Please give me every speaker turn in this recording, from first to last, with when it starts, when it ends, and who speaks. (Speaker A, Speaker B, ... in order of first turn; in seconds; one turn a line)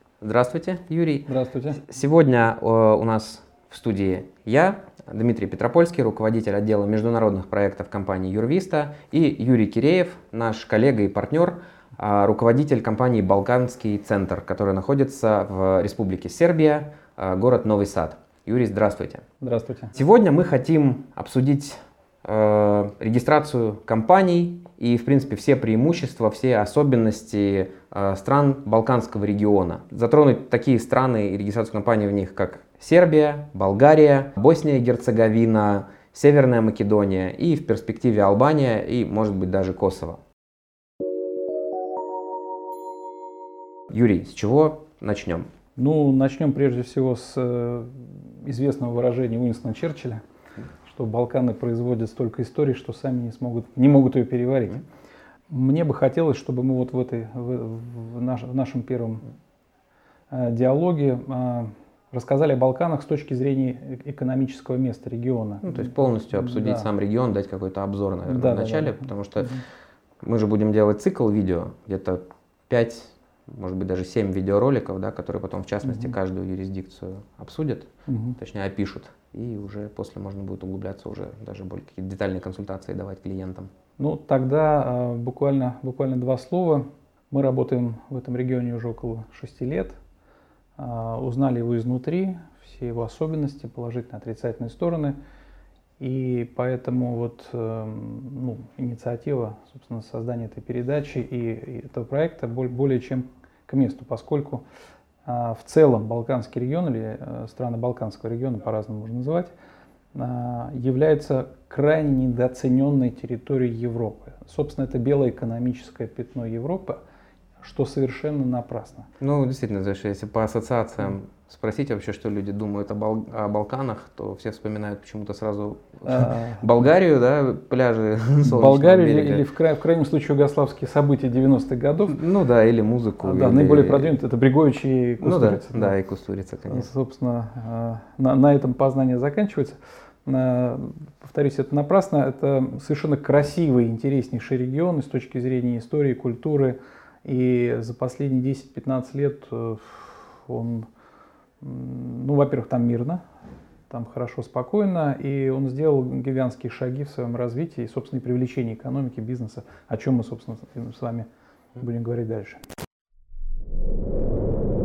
Speaker A: 0.2-19.2
Speaker B: 1.3-1.8
Speaker B: 19.4-19.9
Speaker A: 19.9-40.2
Speaker A: 43.9-45.5
Speaker B: 45.8-50.2
Speaker B: 50.8-54.8
Speaker B: 55.5-59.2
Speaker B: 60.3-66.9
Speaker A: 65.6-69.6
Speaker B: 68.3-69.6
Speaker A: 70.2-83.7
Speaker B: 78.1-78.4
Speaker B: 84.0-90.0
Speaker B: 90.8-95.2
Speaker B: 96.0-104.6
Speaker B: 105.2-109.5
Speaker B: 110.1-117.0
Speaker B: 117.6-119.1
Speaker A: 119.2-129.4
Speaker B: 126.0-126.6
Speaker B: 128.4-132.2
Speaker A: 132.1-134.2
Speaker B: 133.2-135.9
Speaker A: 135.2-136.9
Speaker B: 136.7-150.9
Speaker B: 151.6-153.2
Speaker B: 153.9-162.6